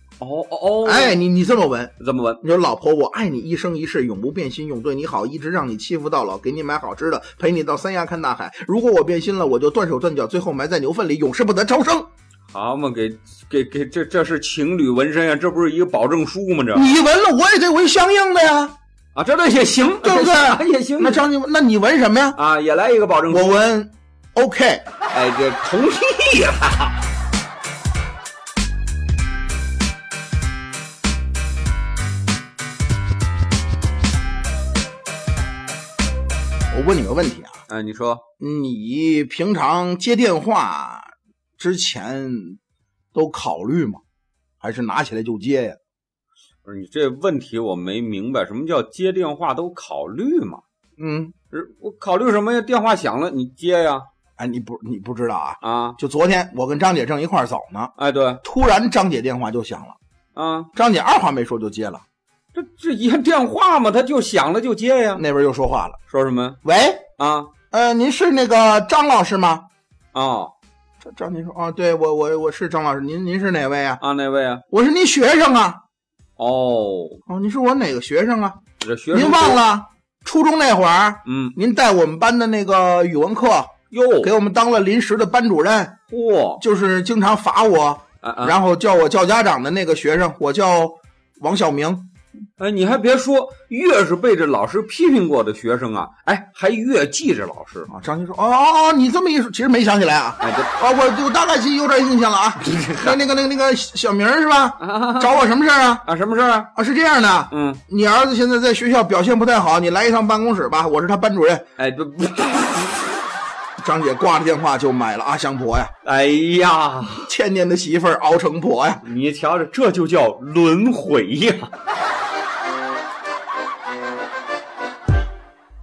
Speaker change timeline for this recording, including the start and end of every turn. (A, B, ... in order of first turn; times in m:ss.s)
0:00.2-0:01.2 A
0:00.8-0:12.1 B
0:02.0-0:02.4 A
0:12.5-0:16.9 A
0:16.7-0:18.8 B
0:19.1-0:21.2 A
0:20.0-0:22.4 B
0:22.3-0:23.6 A
0:23.3-0:24.8 B
0:25.1-0:27.0 A
0:36.7-0:37.6 B
0:37.7-0:38.2 A
0:38.4-0:42.6 B
0:43.1-0:44.0 B
0:44.6-0:45.8 B
0:46.6-0:50.6 A
0:51.0-0:51.3 B
0:51.5-0:54.1 A
0:54.4-1:00.0 B
0:55.6-0:56.0 A
0:58.0-0:58.4 A
1:00.3-1:00.7 A
1:00.8-1:02.0 B
1:02.5-1:05.2 A
1:05.1-1:06.0 B
1:06.1-1:06.6 A
1:06.6-1:07.0 B
1:07.2-1:07.5 A
1:07.7-1:09.6 B
1:10.1-1:10.5 A
1:11.0-1:14.0 B
1:14.0-1:14.6 A
1:14.7-1:15.8 B
1:16.4-1:17.2 A
1:17.3-1:18.6 B
1:18.8-1:19.6 A
1:19.1-1:26.0 B
1:21.2-1:21.6 A
1:23.9-1:24.3 A
1:26.1-1:26.6 A
1:26.6-1:32.1 B
1:28.2-1:28.6 A
1:32.6-1:37.9 A
1:37.9-1:46.1 B
1:40.4-1:40.7 A
1:42.6-1:43.2 A
1:44.8-1:45.4 A
1:46.0-1:46.7 A
1:46.8-1:51.6 B
1:47.5-1:47.8 A
1:51.8-1:53.2 A
1:53.8-1:55.9 B
1:56.0-1:57.3 A
1:57.2-1:59.0 B
1:59.0-2:01.7 A